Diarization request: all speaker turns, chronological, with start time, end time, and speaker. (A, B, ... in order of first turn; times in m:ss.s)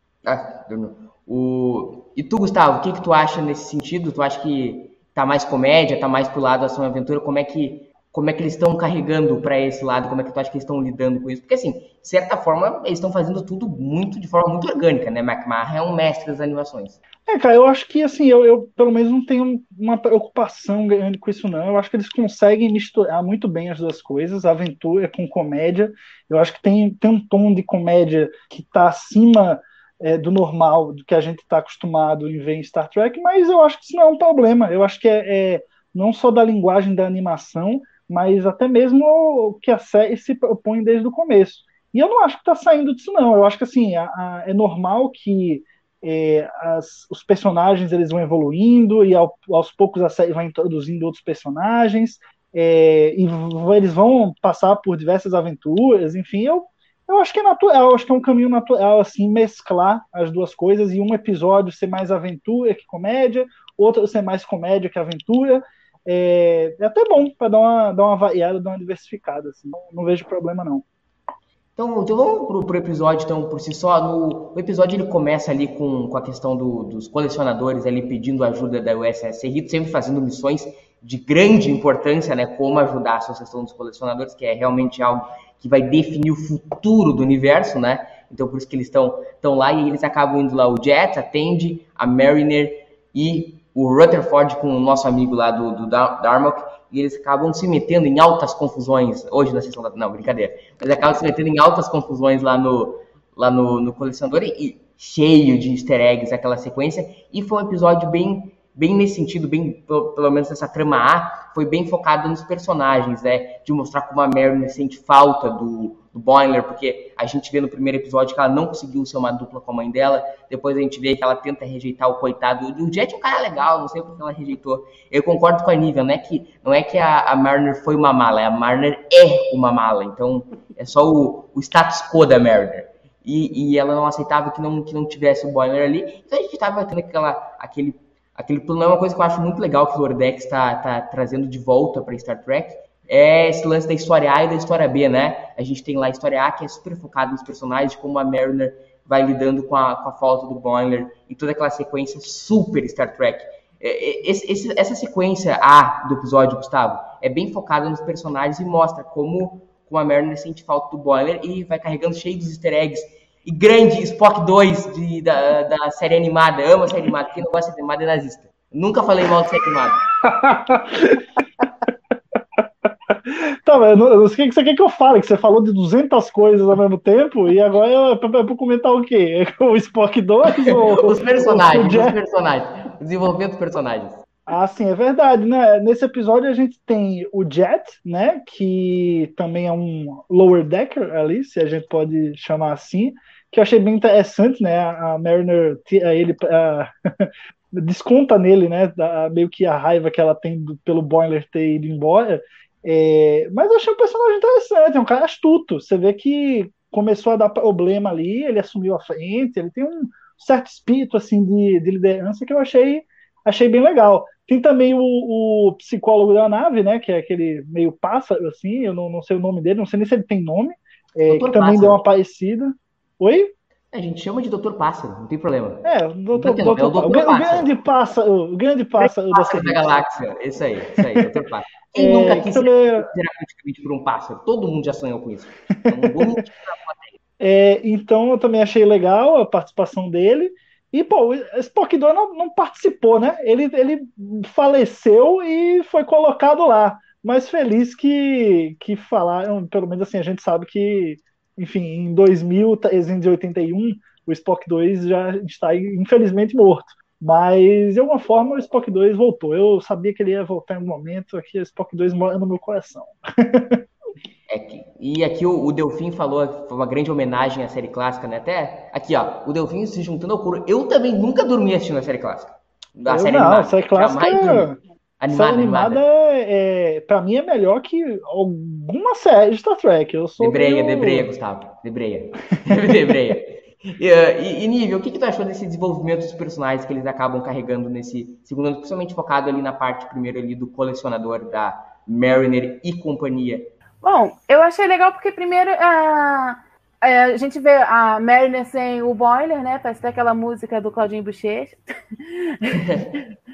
0:00.2-0:17.0 A
0:17.3-1:10.8 B
1:11.8-2:50.0 A
2:50.2-2:51.2 B
2:53.1-3:02.2 B
3:00.6-3:04.2 A
3:04.5-3:43.5 B
3:41.3-3:42.0 A
3:43.9-3:47.7 A
3:45.8-3:50.0 B
3:49.0-3:57.1 A
3:51.9-3:53.1 B
3:55.9-3:56.4 B
3:57.4-4:23.8 B
4:24.5-4:34.7 A
4:33.1-4:34.8 B
4:35.2-4:36.0 A
4:35.3-4:41.3 B
4:40.4-4:53.7 A
4:54.0-5:01.8 C
5:02.3-5:03.0 C
5:02.8-5:03.1 A